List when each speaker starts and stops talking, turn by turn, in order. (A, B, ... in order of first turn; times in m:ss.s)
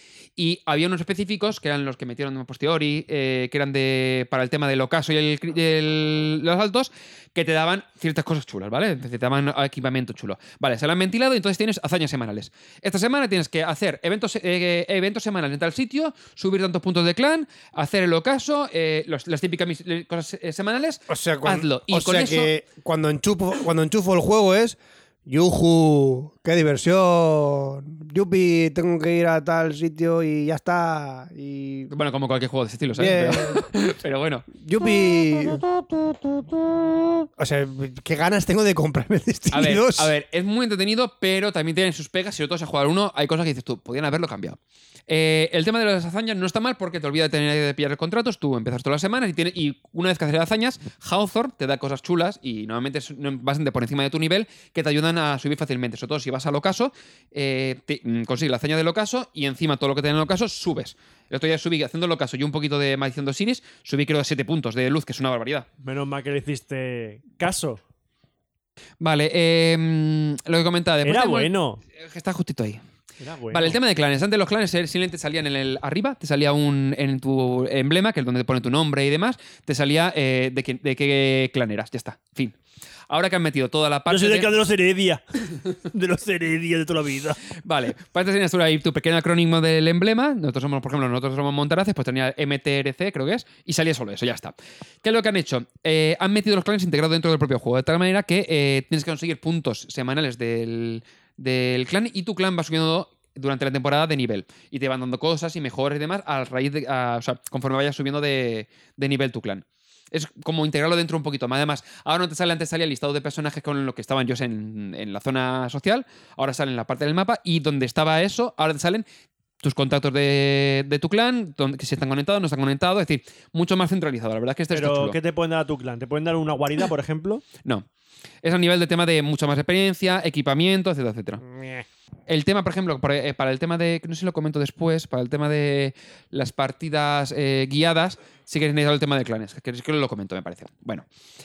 0:00.4-0:22.5 A
0:21.1-0:31.9 B
0:31.9-0:34.5 A
0:32.9-0:33.6 B
0:34.5-0:40.1 B
0:39.5-1:05.6 A
1:05.8-1:07.8 C
1:09.0-1:12.8 A
1:11.0-1:11.8 C
1:13.2-1:13.8 C
1:13.5-1:22.5 A
1:23.1-1:24.5 A
1:24.1-1:27.4 C
1:27.6-1:59.0 A
1:59.6-2:05.2 A
2:04.7-2:07.4 C
2:08.4-2:11.4 A
2:12.3-2:21.0 A